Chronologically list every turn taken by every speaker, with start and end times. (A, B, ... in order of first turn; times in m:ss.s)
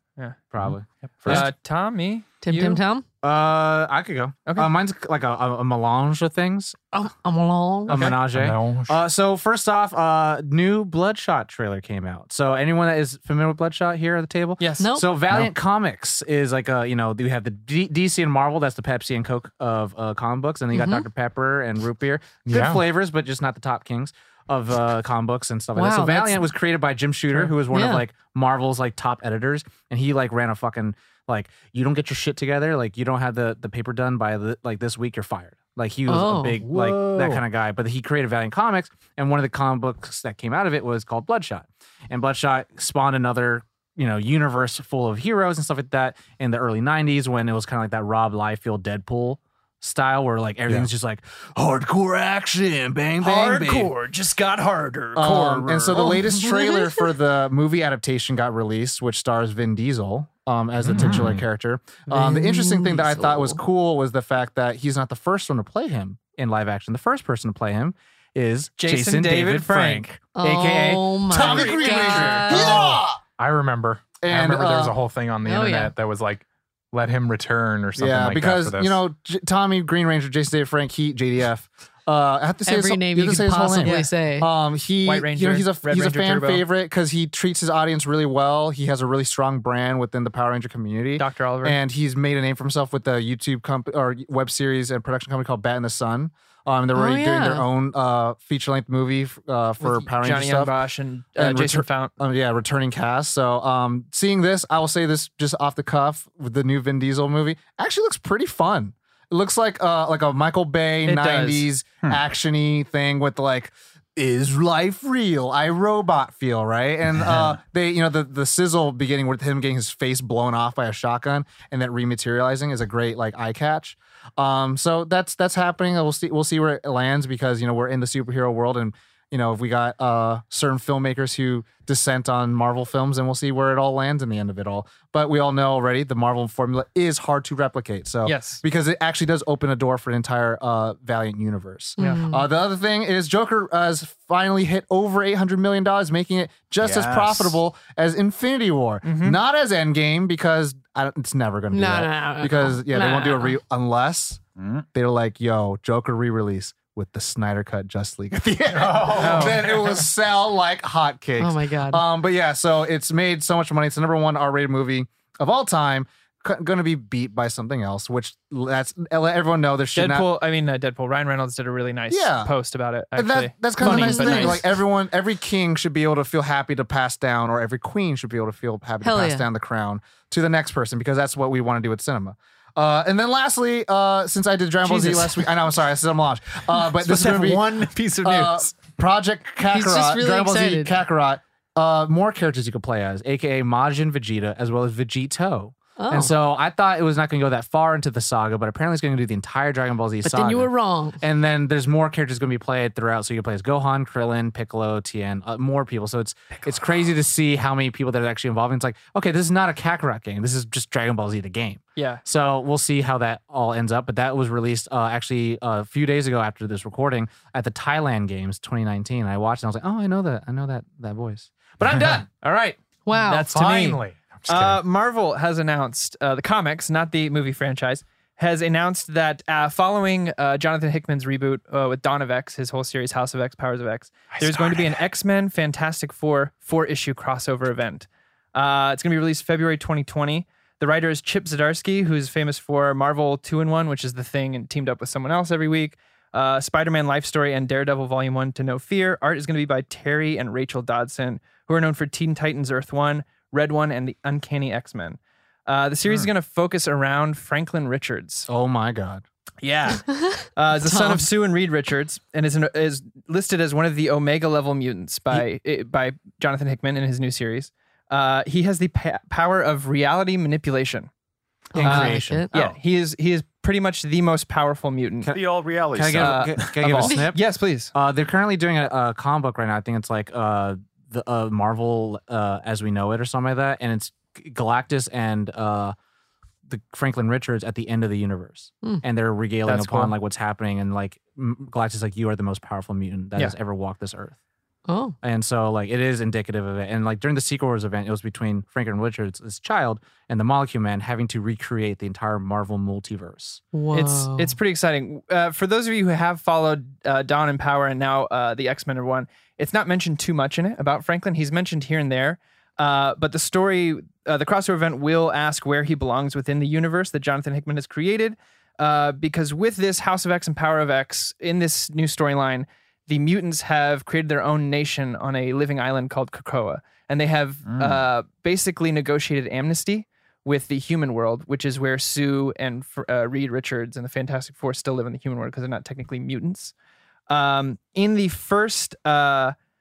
0:00.5-0:01.5 A
0:01.2-0:01.5 B
0:01.2-0:02.8 C
0:02.4-0:03.0 D
0:03.2-0:06.8 A
0:06.9-0:08.1 D
0:07.9-0:53.9 A
0:08.1-0:09.0 E
0:14.6-0:14.9 C
0:14.8-0:15.1 D
0:20.7-0:21.0 D
0:22.5-0:22.8 E
0:25.8-0:26.5 D
0:27.4-0:28.0 D
0:36.1-0:36.6 D
0:36.6-0:37.4 E
0:53.2-0:56.1 C
0:55.2-1:10.2 A
0:55.9-0:57.1 D
1:00.8-1:01.3 E
1:00.9-1:01.4 B
1:02.1-1:03.6 D
1:08.8-1:12.7 C
1:10.3-1:13.0 D
1:11.3-1:13.2 A
1:13.4-1:19.0 E
1:14.2-1:14.9 A
1:15.4-1:15.9 D
1:18.0-1:40.7 A
1:22.6-1:24.5 D
1:23.8-1:24.1 C
1:25.0-1:26.6 C
1:31.2-1:31.8 C
1:36.9-1:37.6 D
1:39.8-1:42.1 C
1:41.4-2:34.4 A
1:51.0-1:51.7 C
2:18.2-2:18.6 C
2:22.0-2:22.5 D
2:26.8-2:27.6 B
2:29.0-2:29.4 C
2:31.7-2:33.6 D
2:34.6-2:34.8 B
2:34.9-2:50.3 A
2:38.7-2:40.1 E
2:39.2-2:39.6 C
2:41.4-2:42.0 D
2:49.9-2:54.6 C
2:52.1-2:52.5 A
2:53.1-3:42.3 A
2:53.8-2:54.7 D
2:59.0-2:59.5 D
3:04.8-3:05.5 C
3:07.0-3:08.6 C
3:09.7-3:11.0 D
3:16.0-3:16.3 D
3:20.2-3:21.2 D
3:32.0-3:32.2 C
3:42.3-4:18.5 C
3:43.0-3:43.5 D
3:43.5-3:44.8 E
3:54.3-3:55.0 E
4:18.5-4:19.2 A
4:19.6-4:31.1 C
4:20.1-4:21.2 D
4:31.7-4:32.5 D
4:31.7-4:32.5 A
4:31.8-4:35.3 C
4:35.3-4:37.0 B
4:35.9-4:37.4 A
4:36.2-4:37.9 C
4:37.9-4:45.9 A
4:46.7-4:54.4 A
4:49.6-4:50.2 C
4:54.9-4:55.2 D
4:55.2-5:03.6 A
5:03.7-5:04.6 D
5:03.9-5:36.7 C
5:27.6-5:28.0 B
5:37.3-5:39.5 C